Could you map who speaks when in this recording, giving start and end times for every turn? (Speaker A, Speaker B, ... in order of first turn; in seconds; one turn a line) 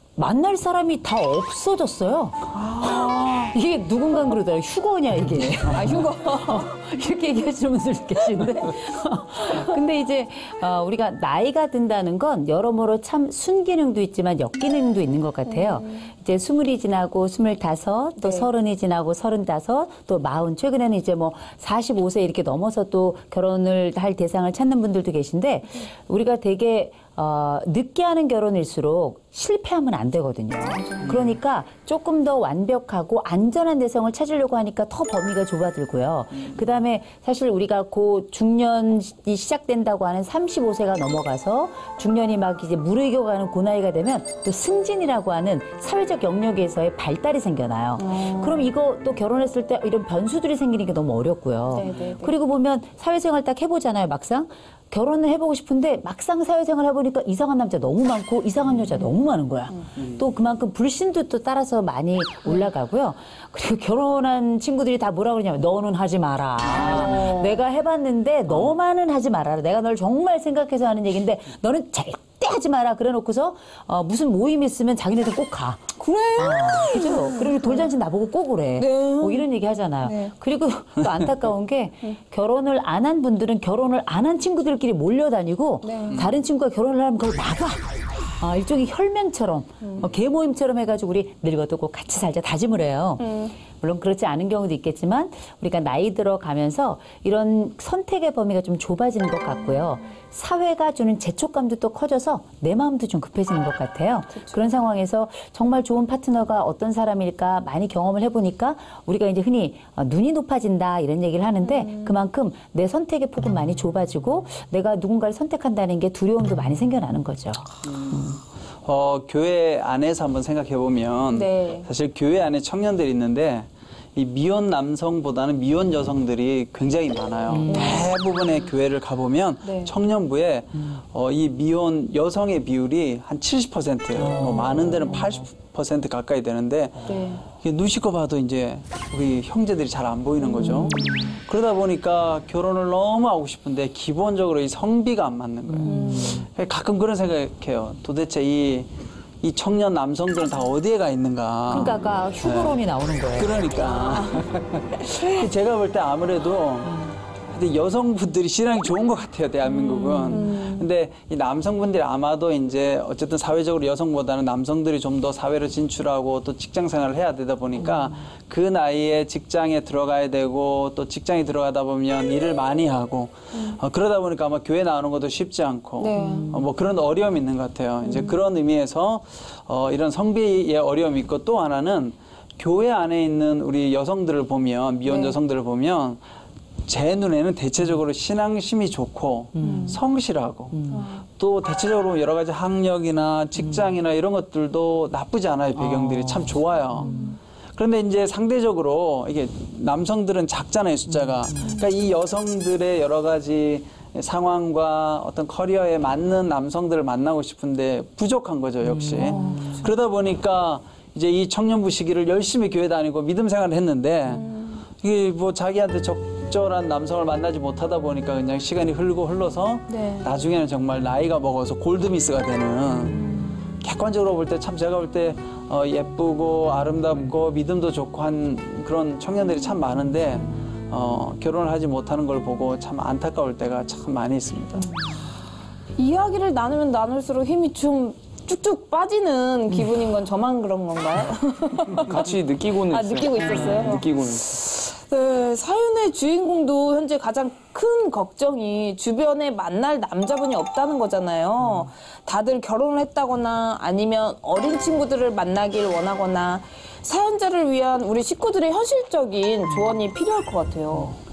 Speaker A: 0.1-2.4
Speaker B: 2.5-3.5
Speaker A: 2.9-87.8
Speaker B: 5.7-6.7
Speaker B: 15.5-16.1
Speaker B: 18.2-18.5
Speaker B: 30.7-31.1
Speaker C: 31.0-31.4
Speaker B: 48.0-48.6
Speaker B: 51.7-52.3
Speaker C: 60.0-60.2
Speaker B: 66.7-67.6
Speaker B: 76.0-77.9
Speaker B: 78.8-79.5
Speaker B: 80.0-80.3
Speaker B: 85.8-86.3
Speaker A: 88.4-93.2
Speaker B: 89.8-90.1
Speaker B: 93.2-93.5
Speaker A: 93.8-118.4
Speaker B: 104.3-104.7
Speaker B: 111.6-112.2
Speaker C: 117.8-118.3
Speaker C: 118.8-148.9
Speaker B: 121.3-121.9
Speaker A: 127.5-128.0
Speaker B: 127.7-128.1
Speaker B: 129.6-129.9
Speaker A: 134.2-135.2
Speaker B: 137.1-137.4
Speaker B: 140.5-141.2
Speaker A: 140.9-141.3
Speaker A: 145.7-146.4
Speaker B: 145.8-146.4
Speaker C: 149.4-152.8
Speaker A: 151.7-153.6
Speaker C: 153.3-186.2
Speaker B: 153.9-154.4
Speaker B: 159.7-160.9
Speaker B: 173.5-173.8
Speaker B: 176.0-176.5
Speaker A: 176.2-176.6
Speaker B: 178.0-178.4
Speaker B: 185.1-185.3
Speaker C: 186.8-197.2
Speaker A: 189.6-190.0
Speaker B: 189.6-190.0
Speaker A: 190.7-191.0
Speaker B: 190.9-191.2
Speaker A: 195.8-197.2
Speaker B: 197.0-197.4
Speaker C: 197.7-214.5
Speaker A: 208.8-209.8
Speaker B: 209.1-209.9
Speaker B: 214.3-214.8
Speaker C: 215.0-223.3
Speaker B: 219.9-220.3
Speaker B: 223.1-223.6
Speaker C: 223.8-234.9
Speaker B: 236.0-242.3
Speaker D: 241.9-244.6
Speaker B: 242.9-261.2